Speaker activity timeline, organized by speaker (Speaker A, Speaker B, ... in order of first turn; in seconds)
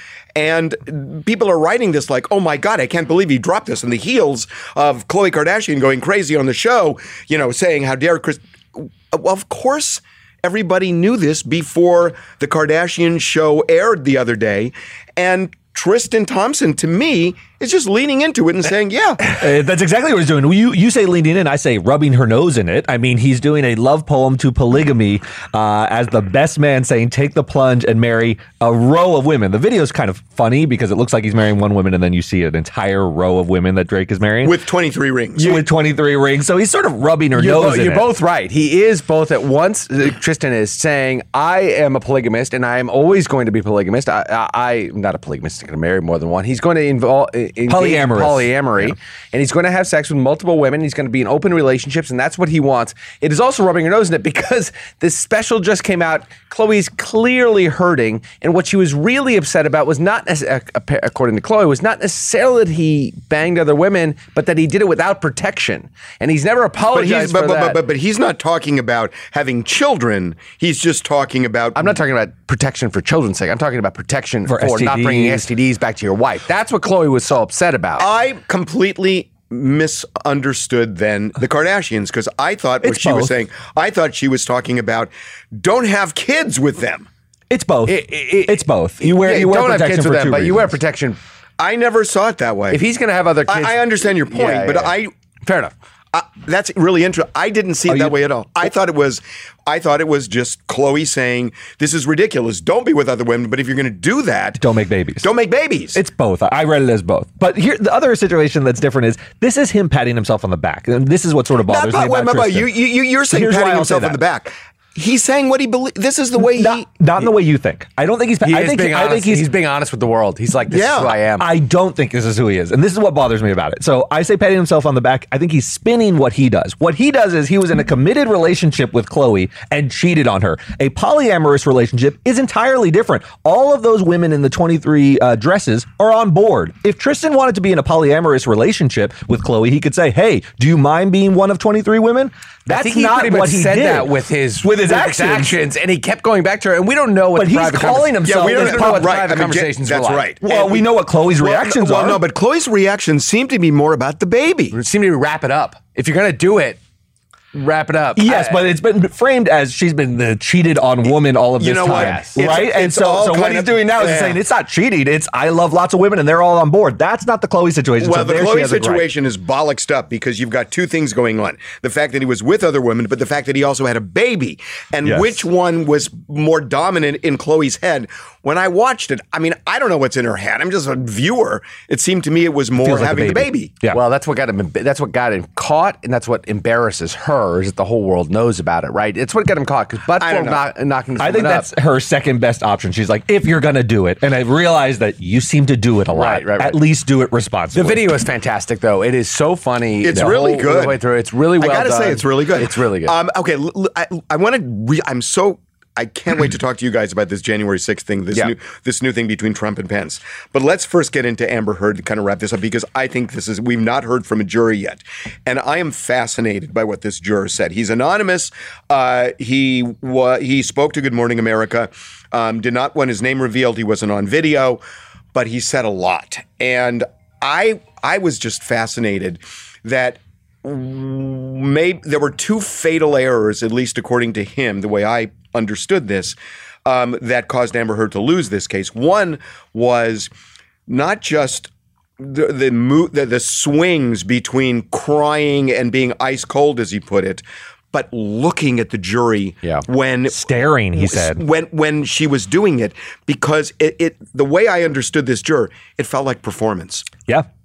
Speaker A: 0.3-19.3, 34.4-35.6, 66.9-71.9, 78.0-87.1, 91.6-92.8, 93.5-95.1, 96.1-104.6, 105.2-106.0, 111.7-116.9, 120.7-121.2, 148.3-154.8, 161.6-164.4, 168.0-183.7, 190.2-190.7, 200.0-201.0, 201.6-224.8, 225.3-240.3, 240.9-257.1
Speaker B: 19.3-34.5, 35.4-38.1, 47.7-49.0, 74.5-75.5, 82.8-83.3, 87.5-90.7, 104.6-105.3, 106.0-112.7, 113.3-114.2, 116.4-119.5, 121.4-145.6, 147.3-149.1, 150.4-152.2, 158.2-169.1, 175.0-175.4, 182.8-184.0, 191.2-198.1, 250.3-251.4
Speaker C: 37.4-67.8, 71.8-78.1, 87.9-91.2, 92.7-94.9, 95.5-95.7, 118.4-121.5, 142.7-150.3, 154.7-156.8, 157.5-158.6, 161.8-162.4, 183.9-191.7, 196.1-196.8, 197.7-203.2